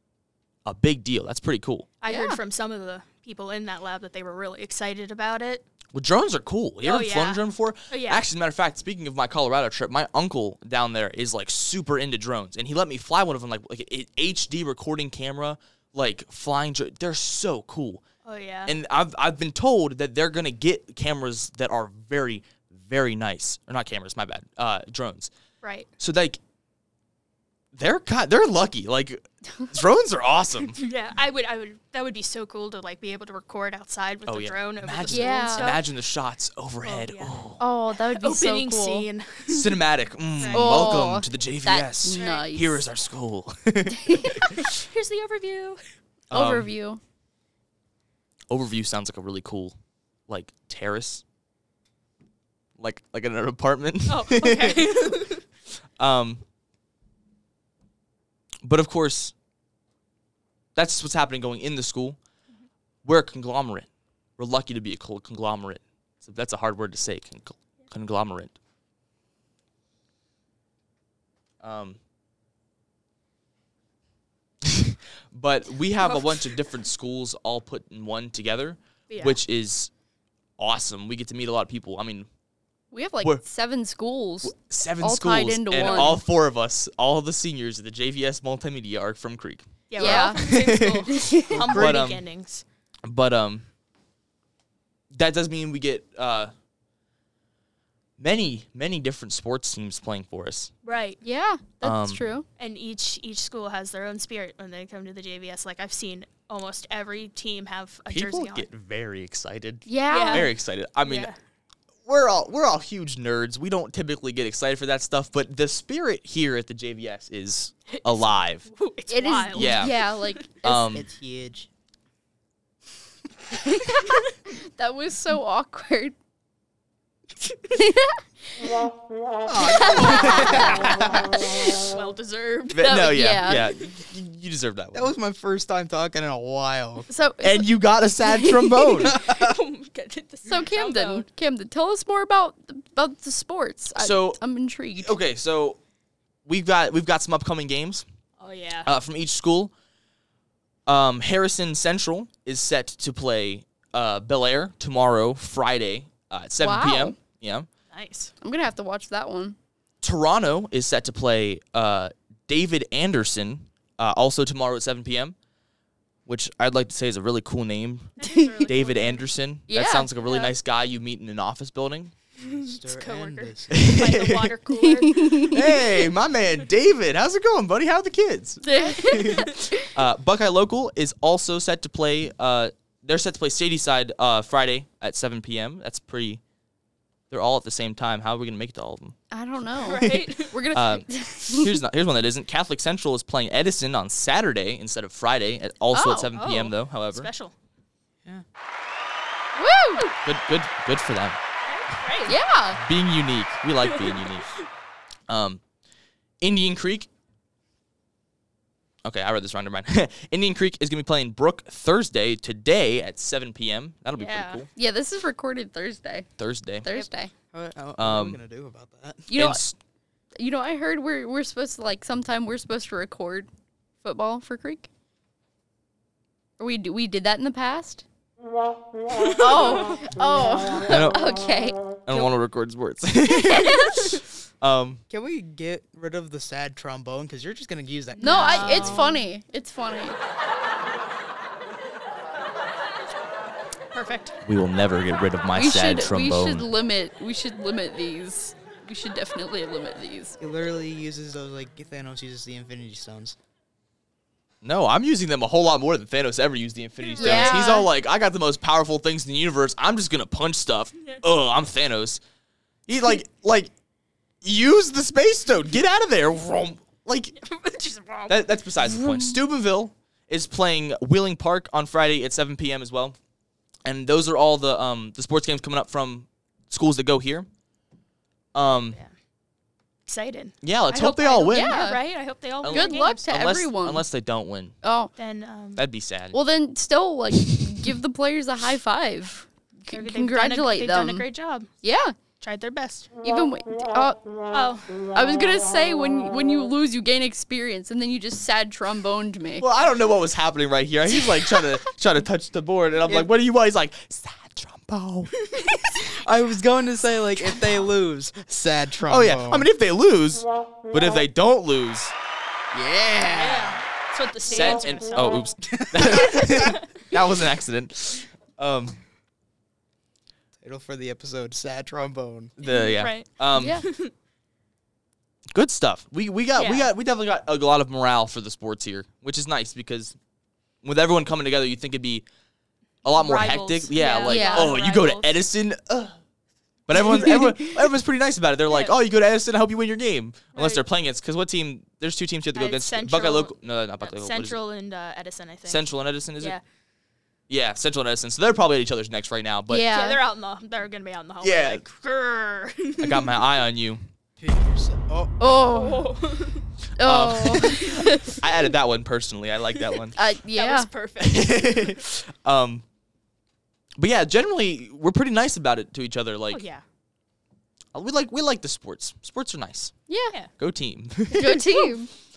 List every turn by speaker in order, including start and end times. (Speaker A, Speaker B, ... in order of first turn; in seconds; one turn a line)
Speaker A: 0.7-2.0
Speaker B: 2.0-5.6
Speaker C: 2.0-2.4
Speaker A: 5.9-18.0
Speaker B: 6.8-8.2
Speaker B: 18.2-18.7
Speaker A: 18.6-25.3
Speaker B: 25.6-25.9
Speaker A: 26.0-26.4
Speaker A: 27.7-30.8
Speaker B: 30.7-35.9
Speaker A: 34.2-37.6
Speaker C: 35.0-35.8
Speaker B: 36.8-39.8
Speaker C: 37.6-39.1
Speaker A: 39.5-44.5
Speaker B: 40.4-41.0
Speaker C: 40.5-42.9
Speaker B: 42.1-42.5
Speaker C: 44.0-44.4
Speaker B: 44.5-45.8
Speaker A: 46.3-46.7
Speaker C: 46.3-47.0
Speaker A: 48.5-49.8
Speaker A: 50.3-51.2
Speaker A: 52.8-54.9
Speaker B: 54.1-55.4
Speaker A: 56.0-56.4
Speaker A: 58.6-59.3
Speaker A: 60.7-62.2
Speaker A: 63.0-63.9
Speaker A: 64.4-68.5
Speaker A: 71.6-72.0
Speaker A: 74.6-79.9
Speaker B: 76.0-76.7
Speaker B: 79.1-79.4
Speaker A: 80.6-82.3
Speaker C: 82.9-86.2
Speaker A: 84.4-92.2
Speaker B: 85.8-86.1
Speaker B: 89.9-92.6
Speaker C: 90.0-90.4
Speaker C: 91.0-91.8
Speaker A: 93.0-93.7
Speaker A: 95.1-96.5
Speaker A: 98.2-100.7
Speaker B: 100.8-101.2
Speaker C: 101.2-102.5
Speaker A: 101.8-102.3
Speaker B: 102.6-108.7
Speaker A: 108.1-111.3
Speaker C: 109.8-110.5
Speaker B: 110.1-111.3
Speaker A: 112.0-118.7
Speaker B: 117.9-120.4
Speaker C: 119.1-120.9
Speaker A: 119.5-120.0
Speaker A: 120.6-121.1
Speaker D: 120.9-121.7
Speaker C: 123.6-126.1
Speaker C: 127.7-128.8
Speaker D: 129.4-131.3
Speaker B: 129.6-133.1
Speaker C: 129.8-130.6
Speaker A: 130.8-131.0
Speaker A: 132.7-135.1
Speaker C: 132.8-133.8
Speaker D: 134.9-137.1
Speaker C: 137.1-137.7
Speaker A: 137.4-139.2
Speaker C: 138.3-138.8
Speaker B: 139.0-141.3
Speaker D: 139.0-139.5
Speaker C: 140.5-145.2
Speaker A: 143.9-144.4
Speaker A: 145.0-145.8
Speaker A: 146.4-148.1
Speaker B: 148.4-148.9
Speaker A: 148.8-149.7
Speaker A: 150.9-157.7
Speaker C: 156.6-157.2
Speaker B: 157.9-158.3
Speaker C: 158.4-159.6
Speaker A: 160.0-165.3
Speaker A: 166.2-172.2
Speaker B: 168.2-169.2
Speaker C: 168.4-168.7
Speaker C: 169.7-170.1
Speaker B: 170.2-170.5
Speaker D: 172.4-173.8
Speaker B: 172.4-176.1
Speaker A: 173.7-174.5
Speaker C: 174.9-175.6
Speaker A: 175.4-186.4
Speaker C: 178.6-179.9
Speaker B: 178.8-179.5
Speaker A: 187.3-189.2
Speaker C: 189.3-191.8
Speaker B: 189.8-190.6
Speaker A: 190.7-197.3
Speaker C: 195.9-196.3
Speaker B: 196.3-197.5
Speaker C: 199.6-200.1
Speaker A: 200.2-201.4
Speaker B: 201.6-202.4
Speaker C: 202.2-202.8
Speaker A: 202.8-204.5
Speaker B: 203.8-204.3
Speaker A: 205.3-205.6
Speaker A: 206.4-207.1
Speaker A: 209.0-214.7
Speaker B: 214.1-214.6
Speaker C: 214.7-216.3
Speaker A: 216.4-216.9
Speaker C: 216.8-217.3
Speaker D: 217.5-219.4
Speaker A: 218.0-218.4
Speaker C: 219.3-219.6
Speaker A: 219.3-219.8
Speaker C: 220.4-223.5
Speaker C: 224.0-224.9
Speaker C: 226.6-228.0
Speaker B: 229.1-230.0
Speaker C: 229.4-231.8
Speaker A: 230.8-231.3
Speaker A: 232.1-235.0
Speaker B: 233.5-234.3
Speaker D: 235.1-239.1
Speaker B: 238.2-239.1
Speaker C: 238.2-240.2
Speaker B: 243.9-244.4
Speaker A: 244.4-246.7
Speaker C: 245.5-250.4
Speaker D: 250.4-253.3
Speaker A: 254.6-262.2
Speaker B: 257.0-257.8
Speaker C: 257.2-257.9
Speaker A: 262.9-263.7
Speaker A: 264.4-267.3
Speaker B: 267.4-268.6
Speaker A: 268.3-273.1
Speaker C: 268.9-269.3
Speaker A: 273.8-277.5
Speaker A: 278.5-279.0
Speaker B: 278.6-279.1
Speaker B: 280.1-283.3
Speaker A: 280.6-281.8
Speaker C: 281.5-282.0
Speaker A: 282.6-284.8
Speaker C: 282.6-284.1
Speaker C: 284.8-285.1
Speaker B: 285.1-285.8
Speaker A: 285.8-286.4
Speaker C: 286.3-291.3
Speaker A: 287.4-287.9
Speaker B: 289.9-291.7
Speaker C: 291.8-292.2
Speaker B: 292.4-293.1
Speaker C: 293.2-294.2
Speaker B: 294.5-295.0
Speaker C: 295.1-299.6
Speaker A: 299.6-305.3
Speaker C: 301.2-301.7
Speaker B: 305.4-306.0
Speaker D: 306.1-309.7
Speaker A: 307.5-307.8
Speaker A: 309.0-312.1
Speaker D: 312.7-313.8
Speaker A: 312.7-313.2
Speaker B: 313.3-315.4
Speaker A: 314.5-319.0
Speaker D: 315.6-316.8
Speaker B: 316.1-316.9
Speaker D: 320.6-322.5
Speaker B: 322.6-324.1
Speaker A: 322.6-323.8
Speaker C: 323.5-323.8
Speaker A: 325.5-330.1
Speaker B: 326.5-326.9
Speaker A: 330.8-332.2
Speaker A: 333.0-336.1
Speaker B: 333.1-335.4
Speaker C: 334.2-334.8
Speaker A: 336.9-344.6
Speaker B: 336.9-337.3
Speaker C: 337.1-337.7
Speaker B: 338.7-338.9
Speaker B: 340.5-340.8
Speaker B: 342.5-346.6
Speaker A: 345.7-346.6
Speaker A: 347.5-349.9
Speaker C: 349.7-350.2
Speaker B: 349.8-353.5
Speaker A: 351.4-351.8
Speaker A: 353.0-354.0
Speaker D: 354.4-355.3
Speaker C: 355.4-356.1
Speaker B: 355.6-356.6
Speaker A: 357.0-357.8
Speaker C: 357.0-358.1
Speaker B: 357.6-358.4
Speaker A: 358.4-360.2
Speaker C: 360.1-360.9
Speaker B: 360.5-362.0
Speaker A: 361.2-362.8
Speaker A: 364.0-366.6
Speaker B: 366.5-366.8
Speaker A: 367.9-369.9
Speaker C: 370.1-370.4
Speaker A: 370.5-371.9
Speaker C: 371.3-372.1